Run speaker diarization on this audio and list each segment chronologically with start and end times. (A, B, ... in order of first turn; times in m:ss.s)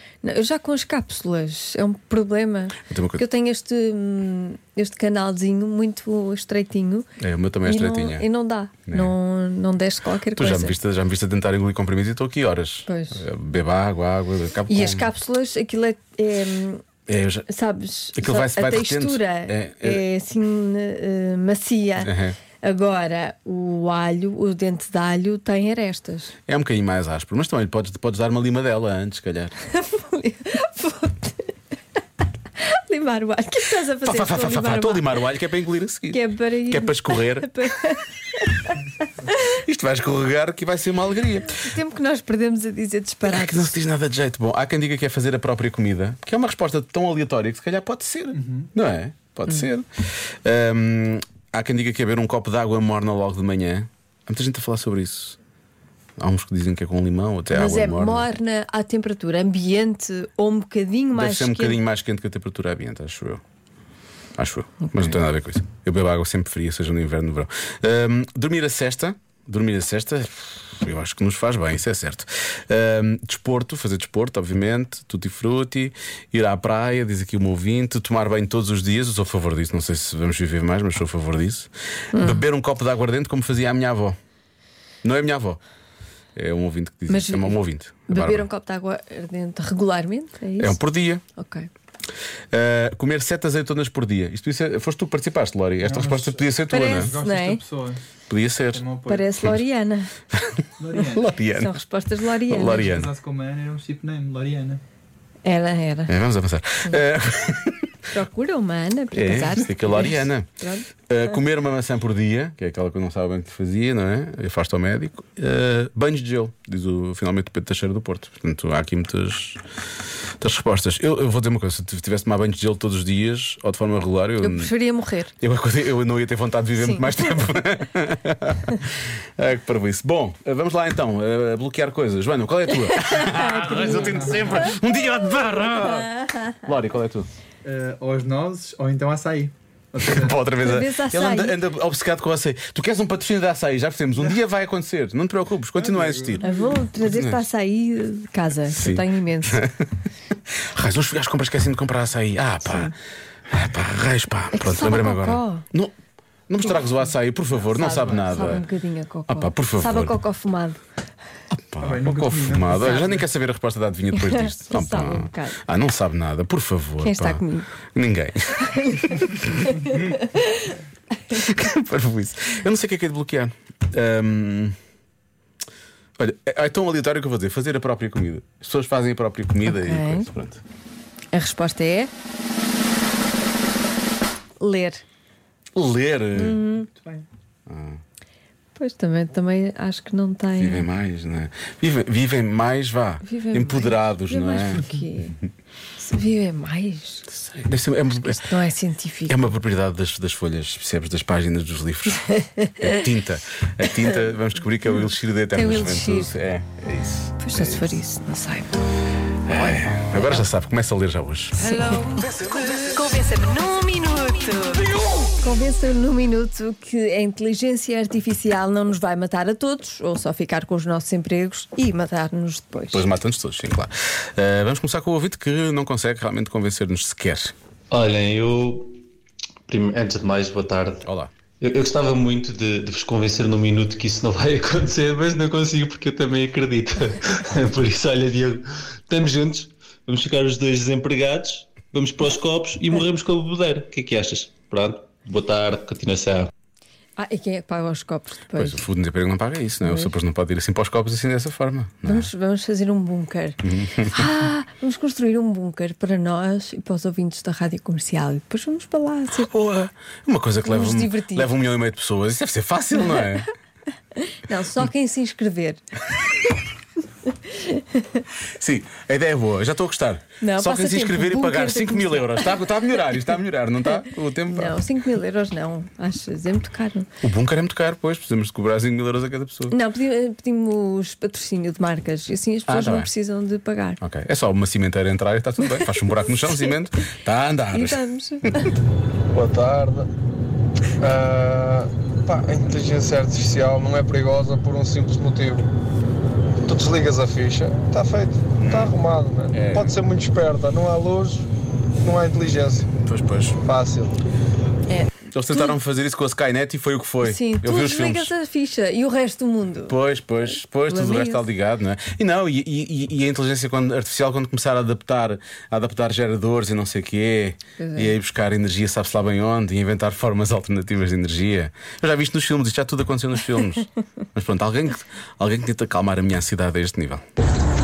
0:00.2-0:07.1 A
0:02.9-0:03.2 B
0:07.2-0:08.3 B
0:07.6-0:10.7 A
0:10.3-0:15.1 B
0:12.9-0:13.2 A
0:14.7-0:16.8 A
0:17.1-0:17.5 B
0:17.5-0:22.1 A
0:18.2-0:20.0 B
0:22.0-0:22.4 B
0:22.6-0:26.3 A
0:26.5-0:29.5 B
0:29.7-0:31.6 A
0:32.6-0:35.1 A
0:34.0-0:37.7 B
0:36.1-0:38.8 A
0:39.5-0:41.7 B
0:41.5-0:43.8 A
0:43.2-0:49.9 B
0:48.3-0:48.7 C
0:50.4-0:55.4 B
0:56.2-0:58.3 B
0:57.5-1:01.8 A
1:01.1-1:03.4 B
1:04.4-1:24.2 B
1:22.1-1:22.4 A
1:25.0-1:25.6 B
1:26.4-1:28.5 B
1:27.1-1:30.8 A
1:30.6-1:31.2 B
1:31.4-1:31.7 A
1:32.5-1:37.1 B
1:35.8-1:38.0 C
1:36.7-1:37.6 A
1:38.3-1:38.8 B
1:38.7-1:39.5 C
1:39.1-1:40.1 A
1:40.8-1:41.3 C
1:41.1-1:41.7 B
1:41.6-1:42.8 A
1:42.5-1:43.1 B
1:42.6-1:44.8 C
1:45.4-1:46.2 A
1:46.1-1:47.9 B
1:48.1-1:50.9 A
1:49.2-1:50.5 B
1:51.1-1:59.6 B
2:00.4-2:04.7 B
2:04.4-2:05.3 A
2:05.4-2:08.8 B
2:06.8-2:07.1 A
2:09.4-2:17.3 B
2:13.3-2:13.9 A
2:13.5-2:14.7 C
2:17.6-2:20.4 C
2:20.0-2:26.4 B
2:20.6-2:21.6 A
2:25.8-2:26.8 C
2:26.4-2:29.6 A
2:27.0-2:27.4 B
2:28.7-2:29.9 B
2:30.7-2:32.9 B
2:32.6-2:32.9 A
2:33.5-2:36.0 B
2:34.5-2:35.7 A
2:36.5-2:38.6 B
2:37.8-2:40.8 A
2:39.3-2:40.2 B
2:41.5-2:47.4 B
2:41.8-2:43.3 C
2:44.1-2:45.6 A
2:47.0-2:47.8 A
2:48.0-2:50.2 B
2:48.6-2:50.7 A
2:51.3-2:54.8 B
2:56.2-3:00.6 B
2:59.6-3:00.3 A
3:01.3-3:02.1 A
3:04.6-3:05.0 A
3:05.8-3:06.6 B
3:06.4-3:06.9 A
3:07.0-3:07.2 C
3:07.7-3:08.0 B
3:08.8-3:10.9 A
3:10.6-3:14.9 B
3:13.3-3:15.4 A
3:16.0-3:17.3 A
3:17.3-3:18.4 B
3:18.2-3:19.5 A
3:19.3-3:28.0 B
3:25.5-3:26.3 A
3:27.4-3:28.9 A
3:29.5-3:32.8 B
3:29.5-3:30.4 A
3:31.6-3:43.1 A
3:42.9-3:47.5 B
3:47.9-3:48.9 D
3:49.7-3:51.0 D
3:51.1-3:51.3 B
3:51.6-4:06.5 D
4:07.2-4:08.8 A
4:08.6-4:12.3 B
4:12.0-4:13.6 A
4:13.6-4:14.3 B
4:14.1-4:19.5 A
4:19.3-4:23.5 B
4:20.6-4:21.5 A
4:24.3-4:25.8 A
4:27.5-4:28.2 A
4:28.6-4:34.8 B
4:30.4-4:32.6 A
4:34.5-4:37.1 A
4:37.2-4:39.8 B
4:39.7-4:44.0 A
4:42.7-4:43.1 B
4:44.0-4:48.6 B
4:47.7-4:48.7 A
4:49.3-4:50.1 E
4:51.0-4:55.7 E
4:56.6-5:01.5 E
4:58.6-4:58.9 B
4:59.5-4:59.9 B
5:02.0-5:02.9 E
5:03.0-5:03.6 B
5:03.6-5:04.2 E
5:04.9-5:05.8 A
5:05.3-5:08.3 B
5:07.2-5:10.0 A
5:09.9-5:27.2 B
5:10.6-5:11.5 A
5:17.8-5:18.2 A